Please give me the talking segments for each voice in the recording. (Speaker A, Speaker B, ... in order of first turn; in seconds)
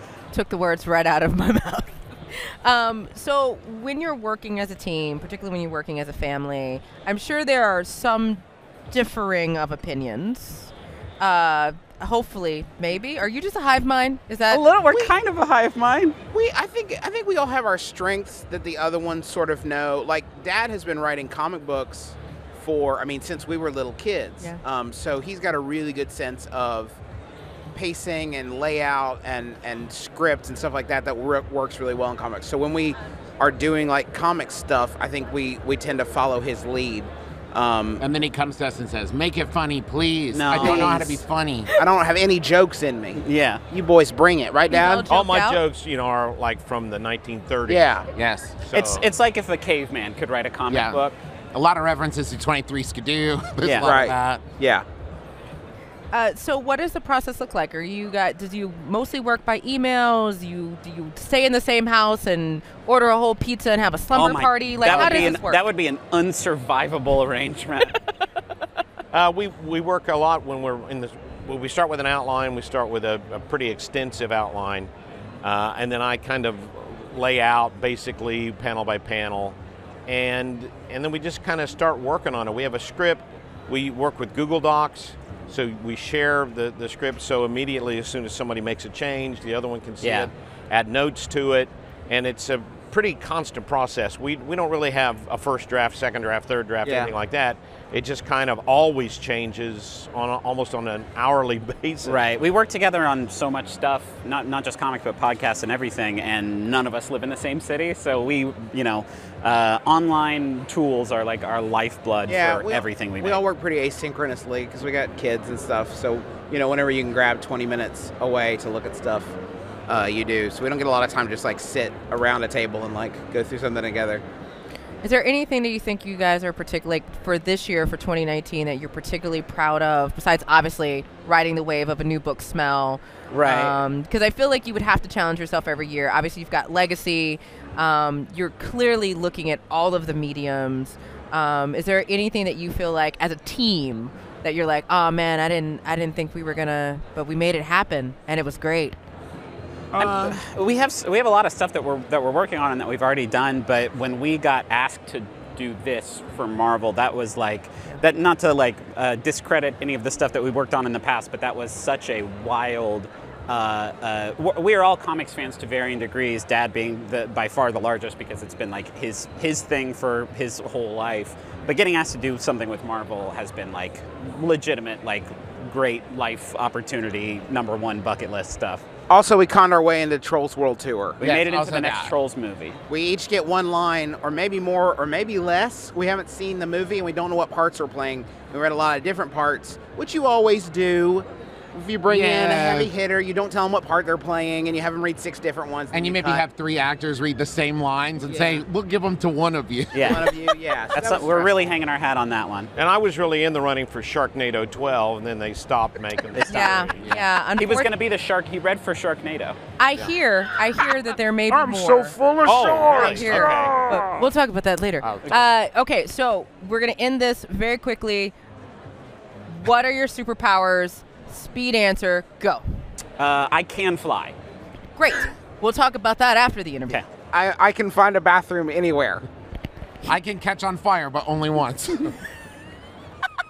Speaker A: 0.3-14.6, 44.7-45.6, 56.1-65.6, 125.0-148.9, 206.5-207.9, 209.8-218.3, 219.4-222.6, 224.9-227.0
Speaker B: 14.5-16.2, 40.3-41.2, 43.1-43.6, 48.7-51.1, 53.6-53.9, 64.1-68.0, 90.0-90.3, 102.0-113.4, 133.3-133.8, 149.9-178.8, 181.2-182.8, 199.9-200.3, 200.9-202.7, 206.3-206.7, 207.6-209.6, 223.2-224.3
Speaker C: 14.9-15.2, 16.3-27.0, 27.7-38.0, 40.5-41.0, 41.8-45.1, 47.7-48.0, 53.8-54.8, 96.8-97.1, 112.2-119.3, 119.9-124.2, 179.1-181.2, 182.9-196.4, 198.2-198.6, 200.1-201.6, 211.7-213.3, 227.3-229.3
Speaker D: 38.0-41.7, 48.1-48.5, 50.7-51.0, 51.5-54.4, 64.8-65.3, 181.2-182.1, 192.1-192.9, 195.9-200.3, 230.0-232.2
Speaker E: 45.1-47.9, 48.6-49.0, 69.1-74.9, 75.4-79.5, 80.1-102.2, 202.8-207.2, 212.4-214.0, 215.0-215.4